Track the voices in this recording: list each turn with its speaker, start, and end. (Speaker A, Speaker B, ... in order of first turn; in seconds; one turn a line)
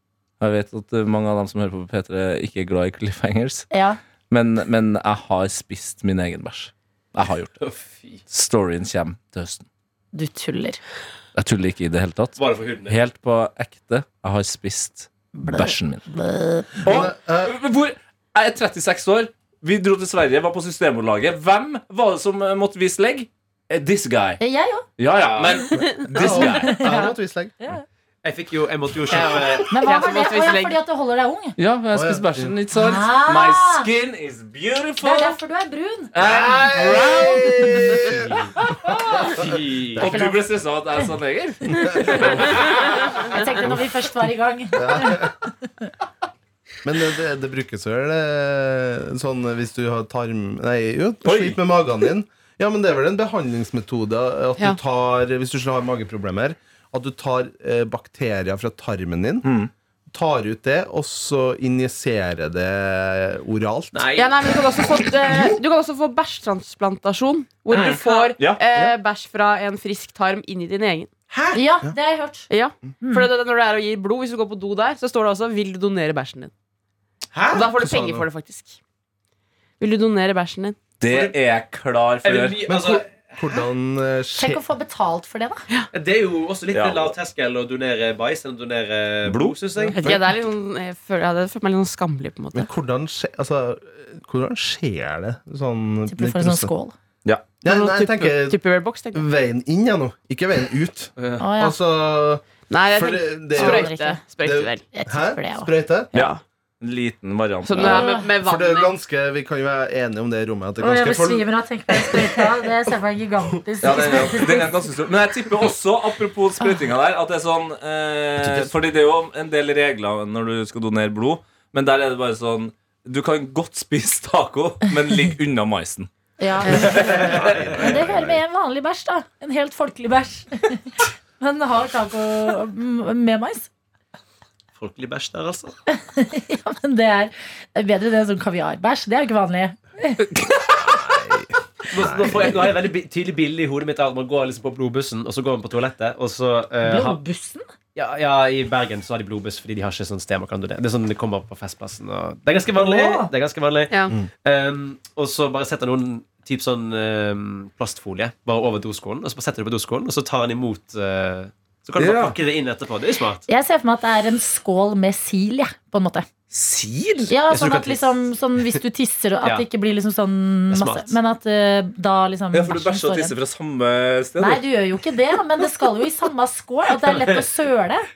Speaker A: 0.4-3.7
Speaker B: 3.7-4.0
Speaker A: 4.3-7.7
Speaker C: 7.6-8.2
Speaker A: 8.3-9.7
Speaker B: 10.1-10.8
Speaker A: 11.3-16.1
Speaker C: 12.4-13.0
Speaker B: 15.4-16.9
Speaker D: 16.8-17.5
Speaker A: 16.8-24.4
Speaker B: 24.4-24.9
Speaker A: 25.0-26.9
Speaker C: 25.3-25.7
Speaker E: 25.8-26.3
Speaker D: 25.8-27.6
Speaker B: 26.4-27.8
Speaker C: 28.2-29.7
Speaker E: 29.1-30.8
Speaker B: 29.7-31.6
Speaker A: 31.6-35.4
Speaker D: 31.9-32.5
Speaker B: 32.7-33.9
Speaker B: 35.0-36.1
Speaker A: 36.1-38.0
Speaker D: 36.2-38.3
Speaker C: 38.1-38.5
Speaker A: 38.6-39.3
Speaker D: 39.0-40.1
Speaker C: 39.2-40.1
Speaker A: 40.0-43.2
Speaker B: 40.0-40.5
Speaker D: 41.7-42.6
Speaker B: 43.3-45.9
Speaker D: 44.7-45.3
Speaker D: 46.8-59.5
Speaker A: 51.2-51.6
Speaker A: 59.4-59.7
Speaker D: 60.1-64.2
Speaker C: 63.9-64.4
Speaker E: 64.2-71.1
Speaker A: 67.7-68.6
Speaker B: 68.0-68.3
Speaker D: 71.3-72.0
Speaker B: 71.5-72.5
Speaker E: 72.5-76.5
Speaker B: 73.0-73.3
Speaker C: 77.3-77.7
Speaker E: 77.5-78.8
Speaker D: 77.8-78.2
Speaker E: 79.8-80.8
Speaker A: 81.0-82.6
Speaker C: 81.1-81.4
Speaker C: 82.2-83.2
Speaker D: 82.7-84.6
Speaker B: 84.4-85.7
Speaker C: 85.9-90.2
Speaker A: 86.7-87.2
Speaker A: 89.3-89.6
Speaker E: 89.9-92.7
Speaker D: 92.5-96.7
Speaker B: 96.1-97.0
Speaker E: 97.6-99.2
Speaker D: 97.6-98.6
Speaker D: 99.1-103.9
Speaker C: 101.2-101.5
Speaker B: 101.4-101.8
Speaker E: 102.7-104.8
Speaker B: 103.6-104.2
Speaker D: 104.4-106.1
Speaker B: 104.9-105.7
Speaker E: 106.1-106.4
Speaker A: 106.1-108.0
Speaker E: 107.6-108.9
Speaker D: 107.8-112.5
Speaker B: 107.8-108.3
Speaker B: 110.8-114.7
Speaker A: 113.8-126.1
Speaker D: 118.4-118.7
Speaker B: 126.4-133.7
Speaker E: 126.7-127.0
Speaker A: 126.7-127.3
Speaker C: 126.9-127.7
Speaker D: 126.9-128.4
Speaker C: 134.8-135.8
Speaker B: 135.9-140.3
Speaker A: 140.3-140.8
Speaker D: 140.8-142.6
Speaker C: 141.9-147.2
Speaker B: 146.8-147.7
Speaker C: 147.9-163.5
Speaker A: 152.8-153.3
Speaker E: 153.9-154.2
Speaker A: 162.0-162.4
Speaker B: 163.5-166.3
Speaker A: 166.5-167.3
Speaker B: 167.3-173.3
Speaker C: 167.5-168.1
Speaker C: 170.7-171.1
Speaker A: 172.5-174.6
Speaker B: 174.4-178.1